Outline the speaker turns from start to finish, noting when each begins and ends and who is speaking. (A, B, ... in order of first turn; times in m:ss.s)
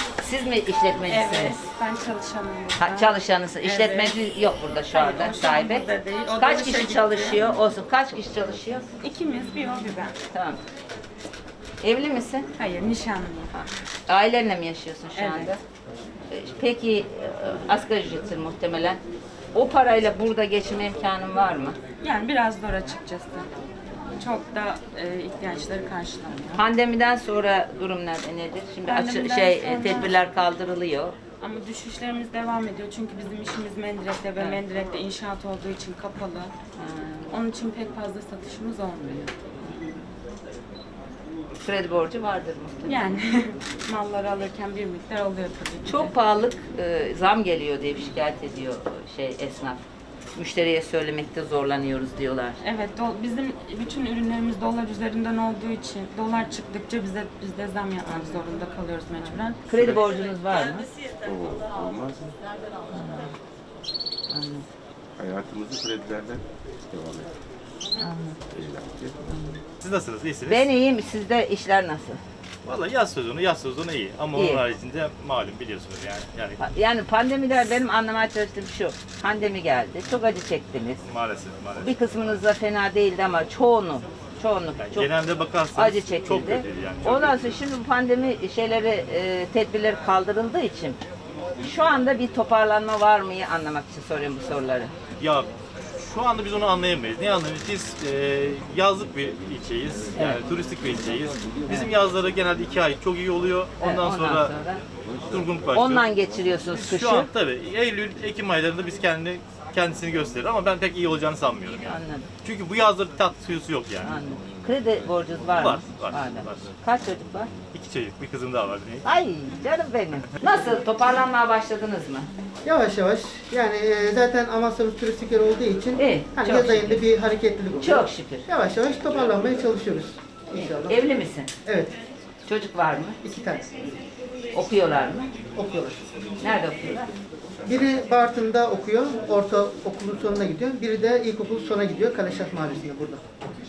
0:00.2-0:01.6 A
0:01.1-0:04.2 B
0:02.8-0:08.8 A
0:04.9-0:07.4 B
0:09.0-0:10.2 B
0:10.3-0:10.6 A
0:11.8-0:12.5 A
0:12.6-0:13.6 B
0:14.1-0:15.6 A
0:15.2-0:15.5 B
0:16.3-0:19.0 A
0:19.5-0:21.8 A
0:22.0-0:23.4 B
0:24.2-0:26.6 B
0:26.5-0:31.1 A
0:28.8-0:30.1 B
0:31.4-0:36.5 B
0:36.8-0:37.3 A
0:37.3-0:39.3 B
0:41.6-0:43.1 A
0:42.8-0:46.1 B
0:45.8-0:49.8 A
0:50.3-0:52.6 A
0:52.6-0:59.6 B
0:59.7-1:00.9 A
0:59.7-1:00.0 C
1:01.2-1:02.4 D
1:02.9-1:03.3 A
1:04.3-1:04.6 A
1:05.2-1:07.3 D
1:08.0-1:08.4 A
1:08.5-1:09.2 D
1:09.3-1:09.6 A
1:09.8-1:10.6 C
1:10.4-1:12.2 A
1:12.6-1:16.6 C
1:14.3-1:14.6 A
1:16.6-1:21.0 A
1:21.1-1:22.0 C
1:21.8-1:25.1 A
1:24.8-1:27.5 C
1:25.7-1:31.0 A
1:31.6-1:34.9 A
1:35.2-1:44.5 C
1:43.8-1:44.8 A
1:45.1-1:45.7 D
1:45.3-1:46.1 C
1:45.7-1:47.3 A
1:46.7-1:54.2 C
1:51.8-1:52.3 A
1:54.0-1:57.5 A
1:55.6-1:56.7 C
1:57.7-1:59.0 C
1:59.0-2:02.3 A
2:02.6-2:11.0 E
2:06.0-2:07.0 A
2:07.8-2:08.4 A
2:10.5-2:11.5 A
2:11.6-2:11.9 E
2:12.4-2:13.2 A
2:13.2-2:13.7 E
2:14.5-2:15.3 A
2:15.6-2:16.0 E
2:16.4-2:17.1 A
2:17.6-2:23.2 E